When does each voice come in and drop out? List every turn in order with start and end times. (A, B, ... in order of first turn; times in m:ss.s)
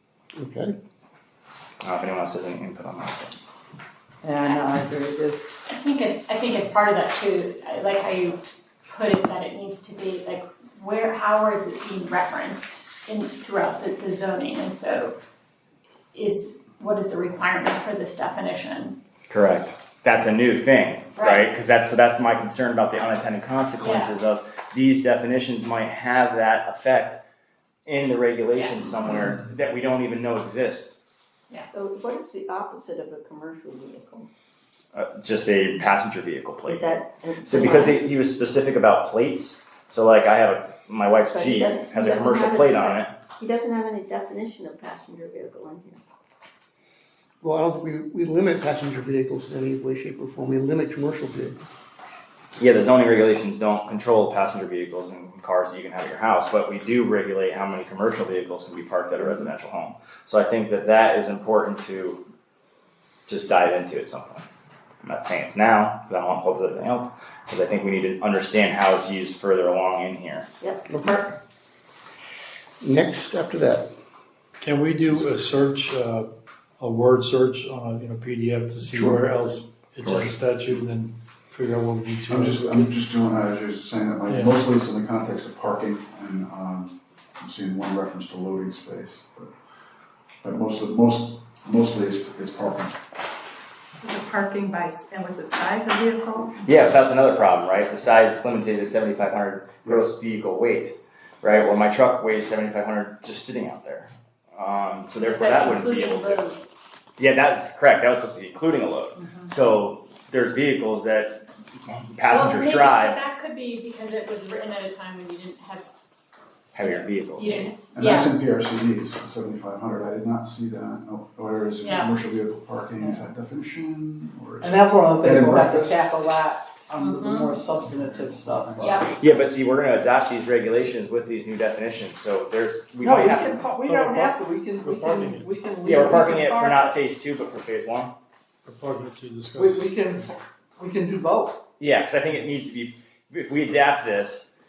0:00.4-0:00.8 A
0:01.8-0:03.4 B
0:04.2-0:05.6 C
0:05.7-0:15.1 D
0:16.1-0:18.9 D
0:19.3-0:27.2 B
0:21.2-0:21.5 D
0:23.8-0:24.1 D
0:27.8-0:31.0 B
0:28.6-0:28.9 D
0:31.7-0:34.3 E
0:34.9-0:36.9 B
0:36.6-0:38.1 E
0:37.4-0:43.1 B
0:41.2-0:46.0 E
0:47.4-0:51.6 A
0:52.6-1:02.2 B
1:03.3-1:04.4 B
1:05.0-1:10.5 B
1:10.6-1:10.9 E
1:10.9-1:11.3 A
1:12.8-1:13.9 A
1:14.6-1:22.7 F
1:18.8-1:20.3 A
1:21.8-1:22.9 A
1:22.3-1:29.5 G
1:24.3-1:24.6 F
1:30.4-1:33.0 G
1:34.0-1:36.6 H
1:36.6-1:46.4 B
1:45.2-1:46.6 D
1:47.2-1:53.2 B
1:49.2-1:49.5 D
1:52.3-1:55.9 D
1:56.7-1:57.7 B
1:56.7-1:58.3 D
1:57.9-2:06.2 G
2:01.8-2:02.1 D
2:03.0-2:03.3 C
2:04.6-2:09.2 C
2:07.7-2:09.0 G
2:08.8-2:09.1 D
2:09.2-2:13.6 B
2:13.0-2:17.0 C
2:13.8-2:15.5 F
2:15.8-2:18.1 B
2:18.6-2:20.2 F
2:19.6-2:21.6 C
2:21.8-2:24.5 B